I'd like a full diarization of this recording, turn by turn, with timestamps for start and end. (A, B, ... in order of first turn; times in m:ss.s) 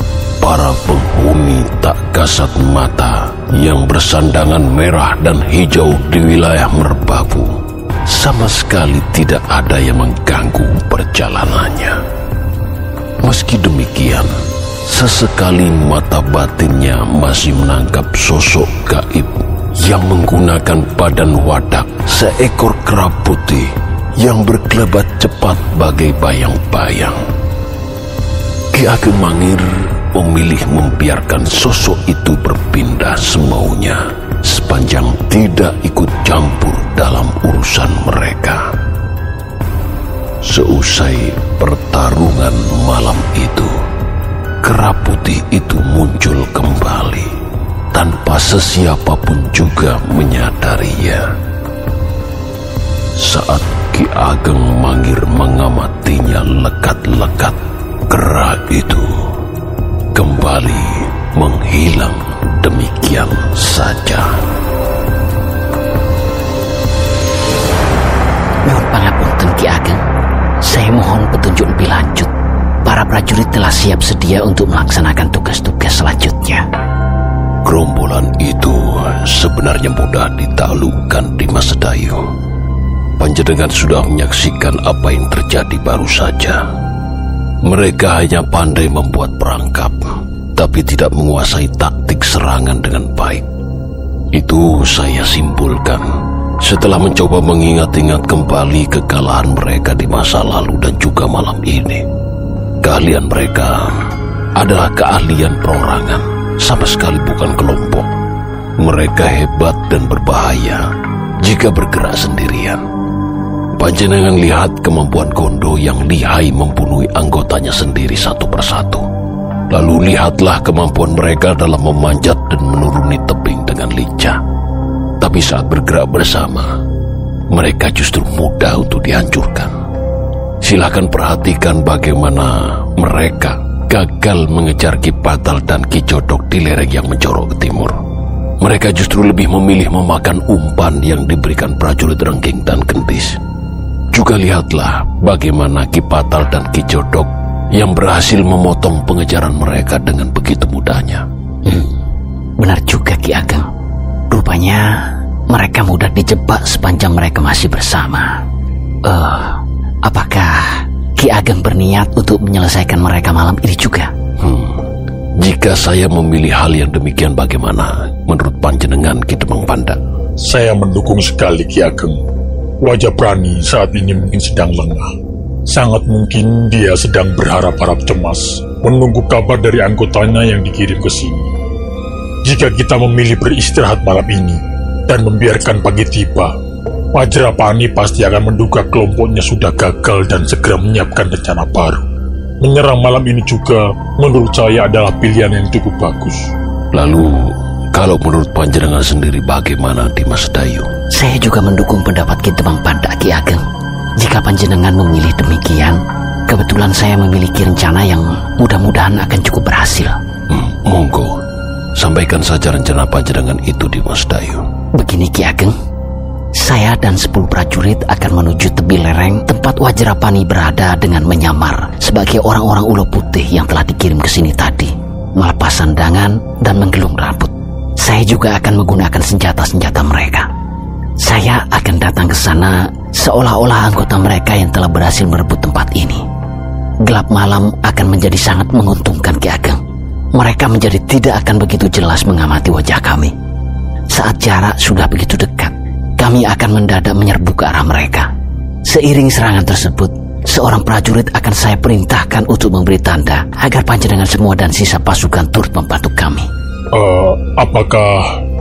0:00.4-0:12.0 A
0:13.2-0:14.3 A
0:14.8-0:27.2 A
0:28.7-0:38.6 A
0:40.4-0:43.7 A
0:44.6-0:47.3 A
0:47.9-0:51.2 A
0:53.2-0:59.1 A
1:00.1-1:04.3 A
1:08.6-1:10.0 B
1:10.6-1:12.3 B
1:12.8-1:16.6 B
1:17.6-1:22.2 A
1:23.2-1:26.6 A
1:27.6-1:33.5 A
1:34.3-1:36.0 A
1:36.6-1:42.1 A
1:42.8-1:44.0 A
1:44.6-1:48.1 A
1:48.8-1:50.9 A
1:51.4-1:52.8 A
1:53.8-1:59.1 A
1:59.7-2:04.4 A
2:05.2-2:06.7 A
2:07.5-2:09.7 A
2:10.6-2:18.0 A
2:18.6-2:23.4 A
2:24.1-2:31.2 A
2:32.6-2:33.7 B
2:34.3-2:38.4 B
2:39.0-2:44.1 B
2:44.4-2:44.9 A
2:45.4-2:50.0 A
2:50.4-2:52.2 C
2:52.8-2:55.0 C
2:55.7-3:01.4 C
3:02.4-3:06.5 C
3:07.2-3:12.0 C
3:12.6-3:16.5 C
3:16.9-3:17.4 A
3:17.9-3:20.9 A
3:21.1-3:23.6 B
3:24.2-3:30.2 B
3:30.5-3:31.4 A
3:32.0-3:34.6 A
3:35.0-3:35.7 B
3:36.6-3:50.5 B
3:51.2-3:56.2 B
3:57.0-3:59.8 B
4:00.3-4:03.3 B
4:04.1-4:08.3 B
4:08.9-4:16.5 B
4:16.9-4:18.2 C